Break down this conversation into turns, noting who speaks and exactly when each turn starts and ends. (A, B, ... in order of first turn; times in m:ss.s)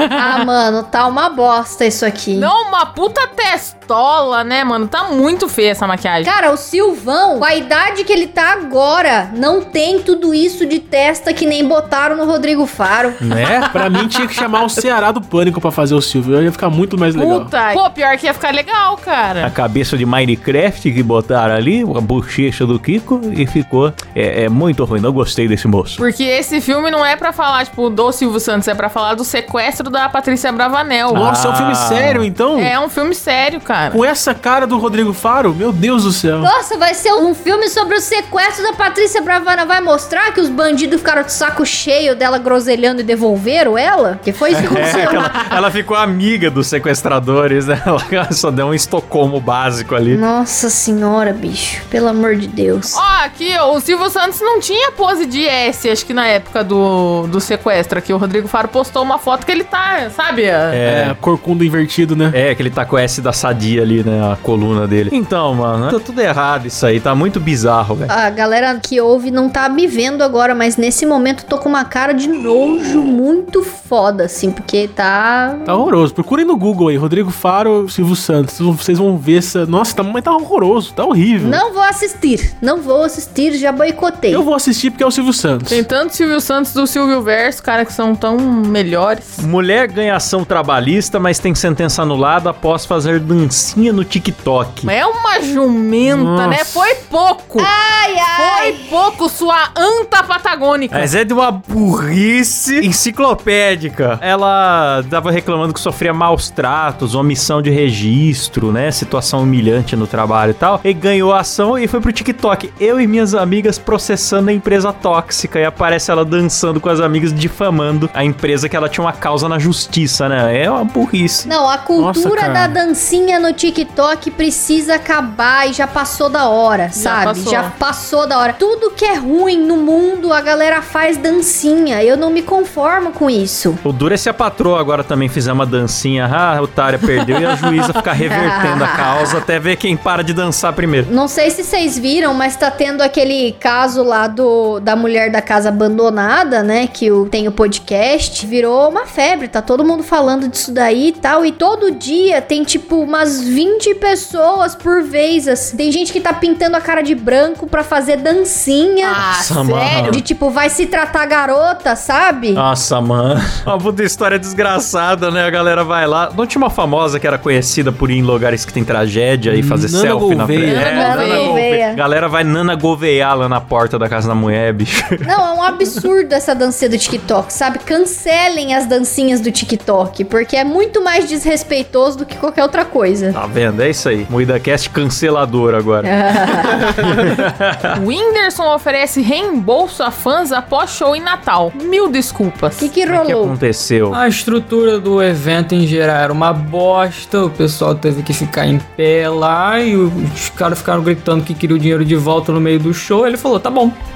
0:00.2-0:02.5 A
0:02.3-0:06.3 B
0:06.2-0:13.2 A
0:13.2-0:13.7 C
0:13.7-0:17.5 D
0:17.1-0:19.5 B
0:19.4-0:26.0 C
0:26.0-0:31.3 B
0:31.1-0:32.3 C
0:31.1-0:32.7 D
0:32.6-0:34.0 B
0:33.9-0:36.5 D
0:36.4-0:45.3 A
0:44.5-0:50.2 C
0:50.1-0:53.0 A
0:52.9-1:00.8 B
1:00.7-1:01.1 C
1:00.8-1:02.3 D
1:02.3-1:08.1 C
1:08.1-1:15.9 A
1:15.6-1:21.6 D
1:21.4-1:24.4 A
1:24.3-1:25.8 D
1:25.7-1:29.4 B
1:29.4-1:34.9 C
1:34.8-1:37.7 B
1:36.1-1:36.8 D
1:37.6-1:38.9 A
1:38.3-1:41.1 B
1:40.9-2:01.5 C
2:01.5-2:13.8 A
2:02.0-2:02.8 D
2:06.9-2:07.7 B
2:13.8-2:21.1 C
2:18.2-2:19.4 A
2:21.1-2:39.2 A
2:39.0-2:40.2 B
2:39.2-2:40.2 C
2:40.0-2:42.6 A
2:42.5-2:55.3 C
2:49.5-2:50.9 D
2:50.6-2:51.6 B
2:50.7-2:52.0 A
2:55.2-3:03.4 A
3:03.3-3:07.9 C
3:06.0-3:07.1 A
3:07.9-3:12.9 B
3:12.8-3:13.6 A
3:13.1-3:14.2 C
3:14.1-3:24.0 E